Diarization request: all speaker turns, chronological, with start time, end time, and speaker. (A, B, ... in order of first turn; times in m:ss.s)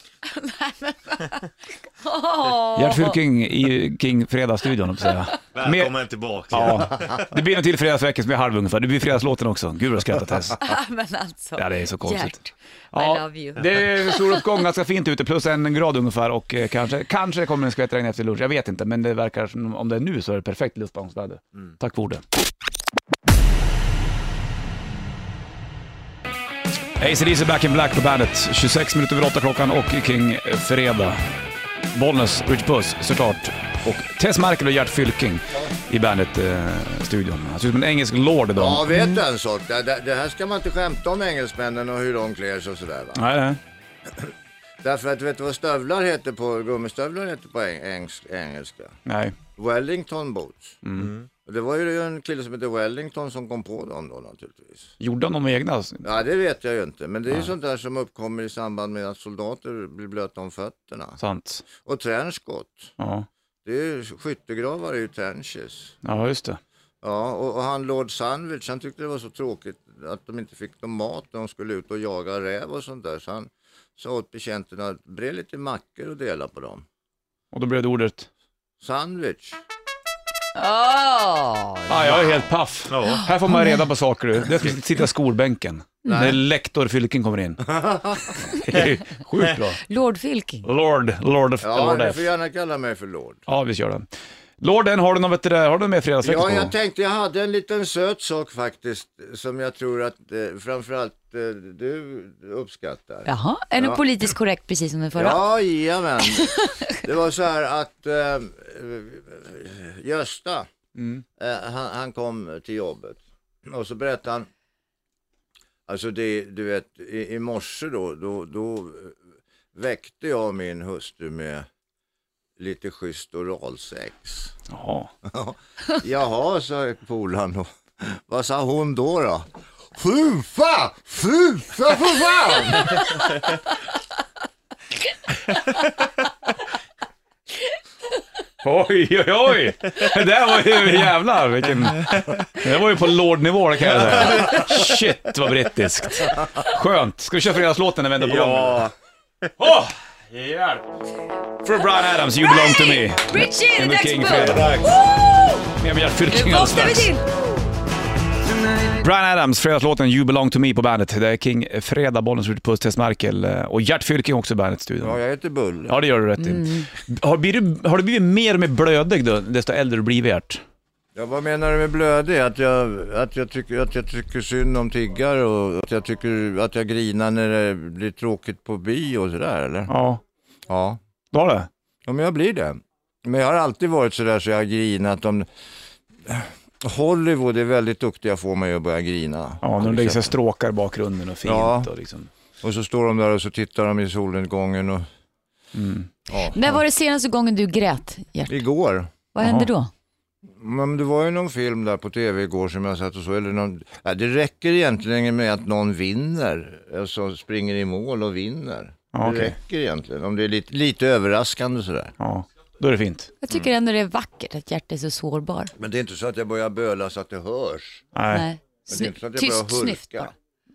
0:00.2-0:01.4 A
0:02.0-0:03.2 A
0:02.7-0:05.9 B
0:05.5-0:07.3 C
0:06.5-0:10.6 B
0:10.6-0:14.4 A
0:11.6-0:12.4 B
0:12.9-0:22.2 B
0:27.0-0:31.2 B
0:31.9-0:38.8 B
0:38.5-0:43.2 D
0:43.1-0:43.6 B
0:44.8-0:49.0 D
0:49.0-0:49.4 B
0:49.6-0:50.8 D
0:50.8-0:51.1 B
0:50.9-0:51.3 C
0:51.4-0:54.9 D
0:55.0-0:56.0 B
0:56.0-1:01.2 D
1:01.2-1:01.6 B
1:01.8-1:02.9 D
1:03.0-1:03.3 B
1:03.6-1:05.9 D
1:06.0-1:06.6 B
1:07.0-1:16.8 D
1:17.5-1:18.3 B
1:18.8-1:19.6 D
1:20.5-1:22.2 A
1:21.9-1:27.6 B
1:22.9-1:23.3 C
1:23.1-1:23.8 A
1:26.0-1:26.4 D
1:27.6-1:28.3 D
1:28.5-1:29.8 B
1:29.8-1:30.6 A
1:30.6-1:32.2 B
1:31.6-1:33.4 D
1:33.5-1:34.1 B
1:34.6-1:36.7 B
1:36.2-1:44.0 D
1:43.2-1:45.4 A
1:45.1-1:50.7 D
1:46.2-1:47.0 A
1:51.0-1:51.2 B
1:51.4-1:54.5 D
1:55.9-1:59.2 D
1:59.7-2:01.7 D
2:02.6-2:04.5 D
2:04.7-2:05.1 B
2:05.2-2:13.1 D
2:18.6-2:28.9 B
2:22.0-2:22.4 C
2:23.8-2:25.0 C
2:28.2-2:28.9 C
2:29.6-2:30.8 B
2:31.6-2:34.8 B
2:32.4-2:35.6 A
2:34.3-2:35.0 C
2:35.8-2:37.1 B
2:36.3-2:37.3 A
2:38.6-2:39.0 A
2:39.0-2:45.2 B
2:45.0-2:46.0 D
2:45.9-2:50.6 B
2:46.4-2:46.9 A
2:51.1-2:59.9 D
2:59.9-3:00.2 B
3:00.7-3:01.0 D
3:01.3-3:01.7 B
3:02.0-3:05.5 D
3:06.2-3:10.3 D
3:09.6-3:12.3 B
3:11.4-3:11.9 D
3:12.6-3:15.0 D
3:15.7-3:16.1 B
3:16.3-3:16.8 D
3:16.5-3:18.6 A
3:18.5-3:19.1 D
3:19.3-3:19.9 A
3:19.4-3:19.7 B
3:20.5-3:32.1 D
3:29.1-3:29.6 B
3:32.2-3:33.3 B
3:33.4-3:35.7 A
3:35.8-3:38.0 D
3:38.1-3:38.4 B
3:38.3-3:40.3 A
3:38.9-3:40.3 D